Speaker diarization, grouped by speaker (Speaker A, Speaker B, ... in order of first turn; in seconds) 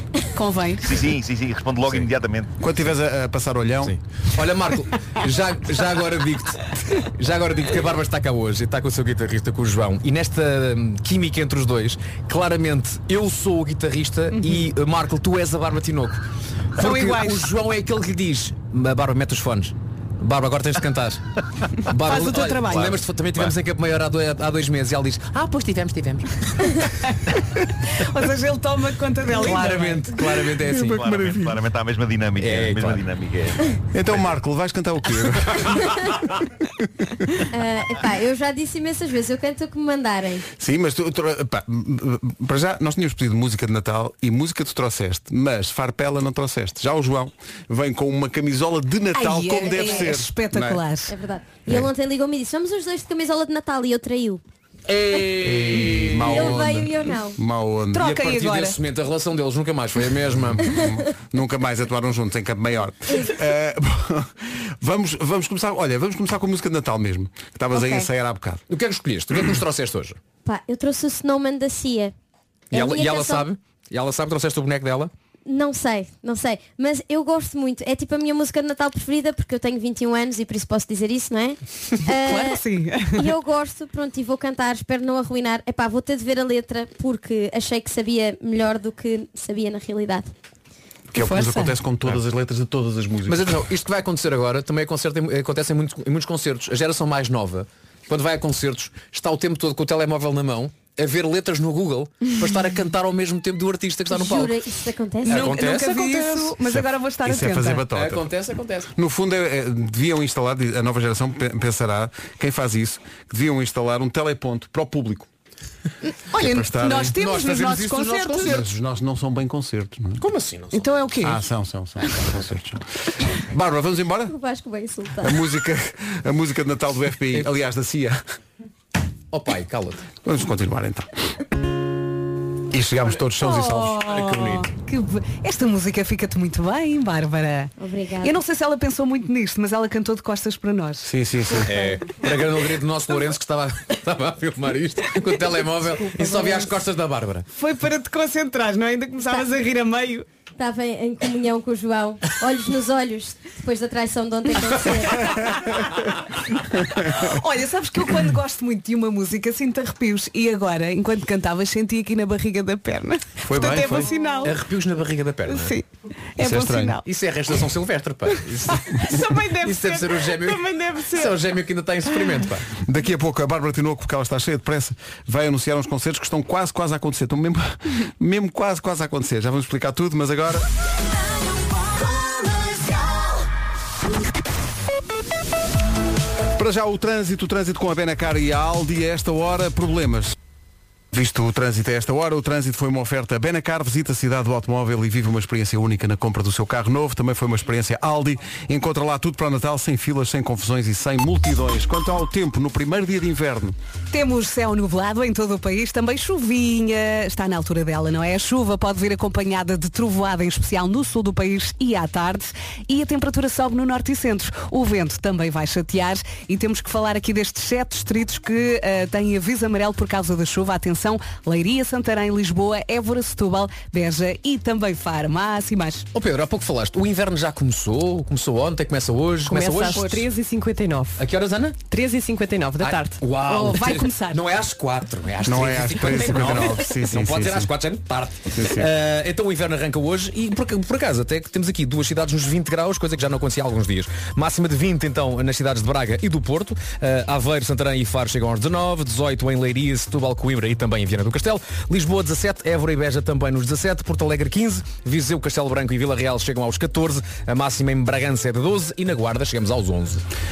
Speaker A: 0.3-0.9, 14.3-14.6, 16.8-17.4, 22.0-23.0, 27.8-30.1, 49.1-51.1, 57.9-58.8, 82.2-83.3, 91.1-91.7, 105.2-107.8, 116.3-118.6, 120.7-121.4, 133.4-141.1, 147.5-150.2, 157.1-164.6, 165.5-167.0, 168.3-171.3, 204.1-226.1, 233.4-234.4
Speaker B: 0.8-2.5, 30.8-33.6
Speaker C: 2.6-4.0, 30.6-31.6, 33.9-36.2, 36.8-37.4, 40.5-50.8, 55.4-58.1, 60.5-68.6, 91.1-93.7, 106.6-108.2, 108.9-115.3, 116.4-117.1, 118.4-120.2, 121.2-124.3, 125.2-128.2, 130.2-131.1, 132.7-134.1, 141.0-141.8, 163.4-164.1, 166.4-167.0, 172.8-180.7, 186.5-190.4, 191.1-203.8, 235.4-237.7, 238.5-238.9
Speaker D: 3.8-26.2, 29.3-31.0, 32.4-33.0, 54.9-56.8, 58.0-60.7, 68.7-70.2, 72.7-75.1, 93.3-104.7, 105.2-106.6, 107.9-108.9, 117.1-118.7, 120.2-121.1, 129.3-130.1, 134.1-134.7, 141.6-147.4, 164.4-165.8, 167.0-172.7, 226.1-230.3, 231.2-231.8, 232.8-260.2
Speaker E: 37.5-40.5, 49.7-50.0, 51.1-54.4, 56.3-57.4, 60.6-61.0, 63.1-63.4, 67.7-68.1, 70.4-72.1, 72.7-73.5, 75.5-90.3, 104.1-105.5, 124.3-125.4, 137.8-138.4, 146.0-146.7, 150.6-155.4
Speaker F: 229.5-231.2, 231.8-233.2